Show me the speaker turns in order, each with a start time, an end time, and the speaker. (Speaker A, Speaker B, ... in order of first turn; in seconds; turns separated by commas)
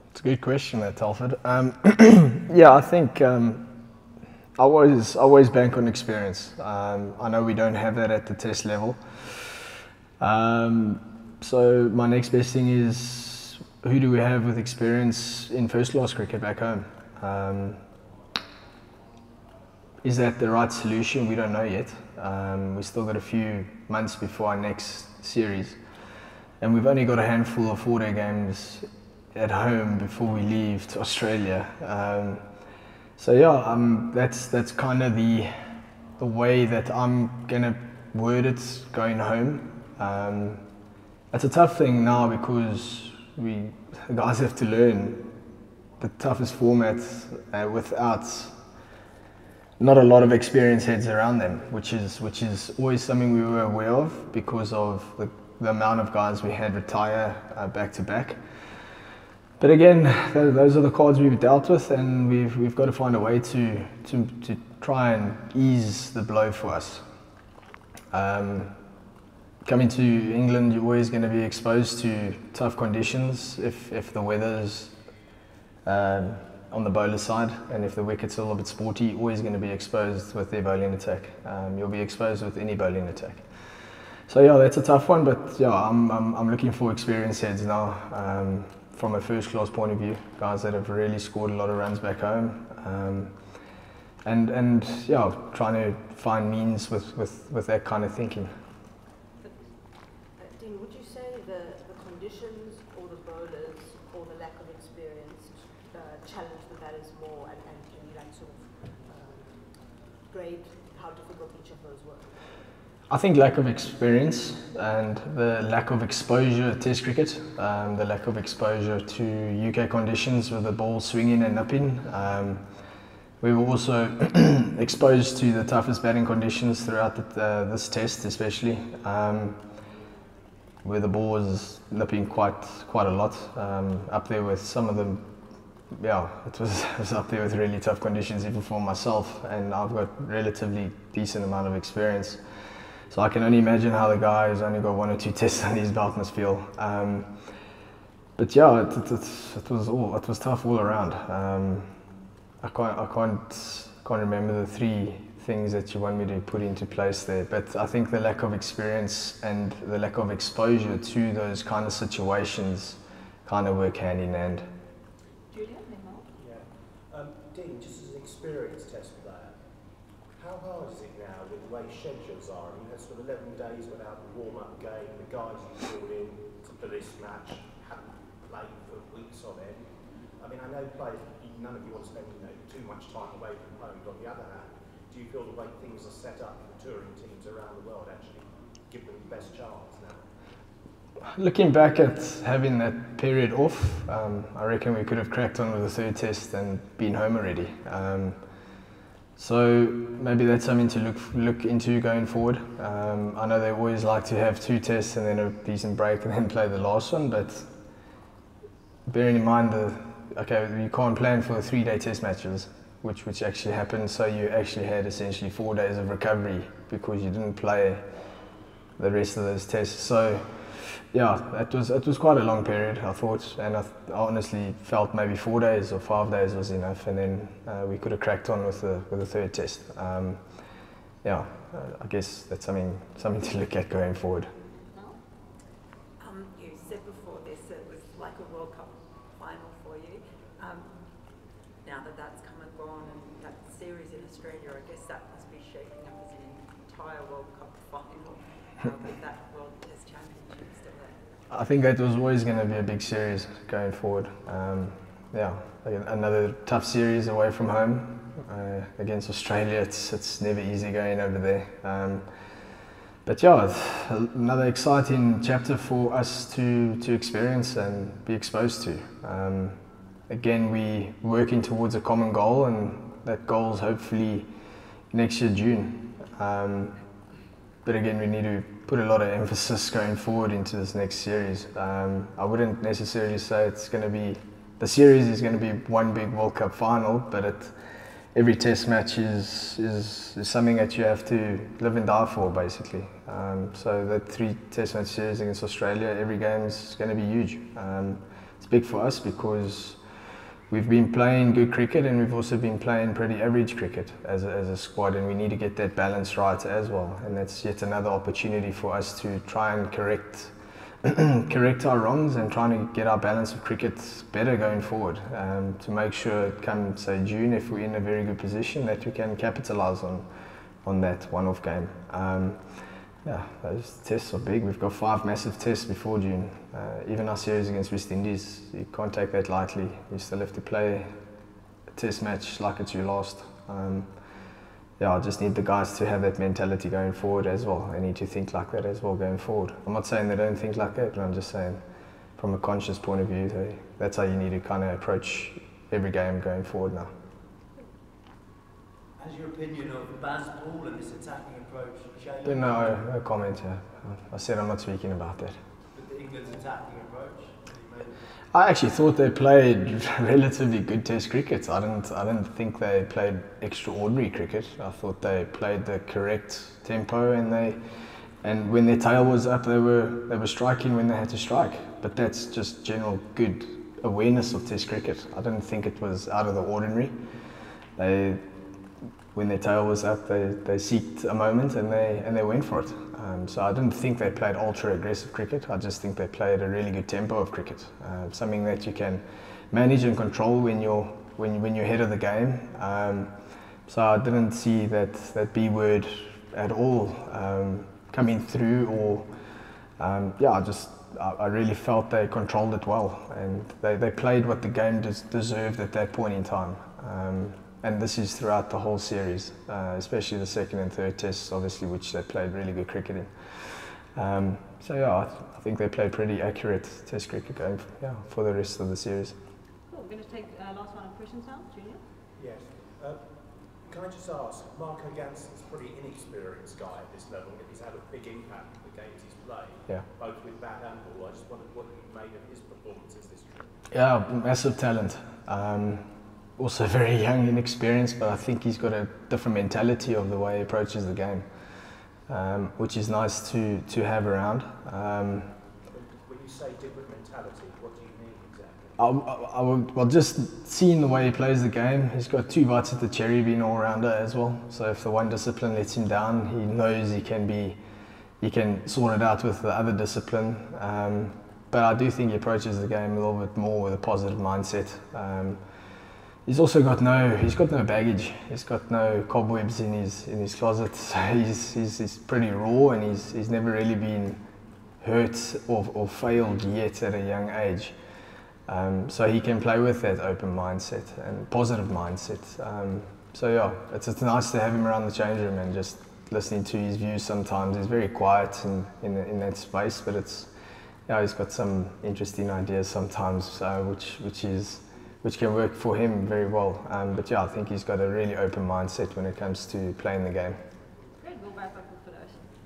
Speaker A: 0.1-3.6, Speaker A: 4.5-9.5, Speaker A: 10.2-17.8, Speaker A: 20.0-25.8, Speaker A: 26.6-32.4, Speaker A: 33.2-35.5, Speaker A: 36.2-40.6, Speaker A: 41.3-45.2, Speaker A: 46.0-48.5, Speaker A: 49.8-58.4, Speaker A: 59.6-67.0, Speaker A: 68.1-68.7, Speaker A: 69.6-75.0, Speaker A: 75.8-93.6, Speaker A: 94.2-98.5, Speaker B: 99.4-112.5, Speaker A: 113.1-122.7, Speaker A: 123.4-129.6, Speaker A: 130.8-135.2, Speaker A: 135.9-142.4, Speaker A: 143.1-147.3, Speaker A: 148.4-151.9, Speaker A: 152.6-164.6, Speaker C: 165.5-166.2, Speaker D: 166.3-169.6, Speaker D: 170.3-190.2, Speaker A: 191.3-198.6, Speaker A: 199.4-207.7, Speaker A: 209.1-218.2, Speaker A: 219.0-230.4, Speaker A: 231.2-234.5, Speaker C: 234.9-235.2, Speaker E: 236.2-240.9, Speaker E: 241.8-251.2, Speaker A: 251.5-262.2, Speaker A: 263.2-269.8, Speaker A: 270.3-274.5, Speaker A: 275.1-277.0, Speaker A: 277.8-287.7, Speaker A: 288.3-300.0, Speaker A: 300.7-310.5, Speaker A: 311.0-331.1, Speaker A: 331.9-334.3, Speaker A: 335.0-347.1, Speaker F: 349.2-352.9, Speaker A: 352.4-355.6, Speaker F: 355.9-358.1, Speaker A: 358.5-367.8, Speaker A: 368.4-377.2, Speaker A: 377.9-378.4, Speaker A: 379.3-393.3, Speaker A: 393.9-399.3, Speaker A: 400.0-419.4, Speaker C: 419.9-422.0, Speaker D: 422.4-423.3, Speaker D: 423.8-433.8, Speaker A: 433.9-436.0, Speaker A: 436.6-441.7, Speaker A: 442.2-445.5, Speaker D: 445.9-449.0, Speaker A: 449.0-457.8, Speaker A: 458.4-465.9, Speaker A: 466.4-474.4, Speaker A: 475.0-478.0, Speaker A: 478.6-490.5, Speaker A: 491.1-500.6, Speaker C: 501.2-502.4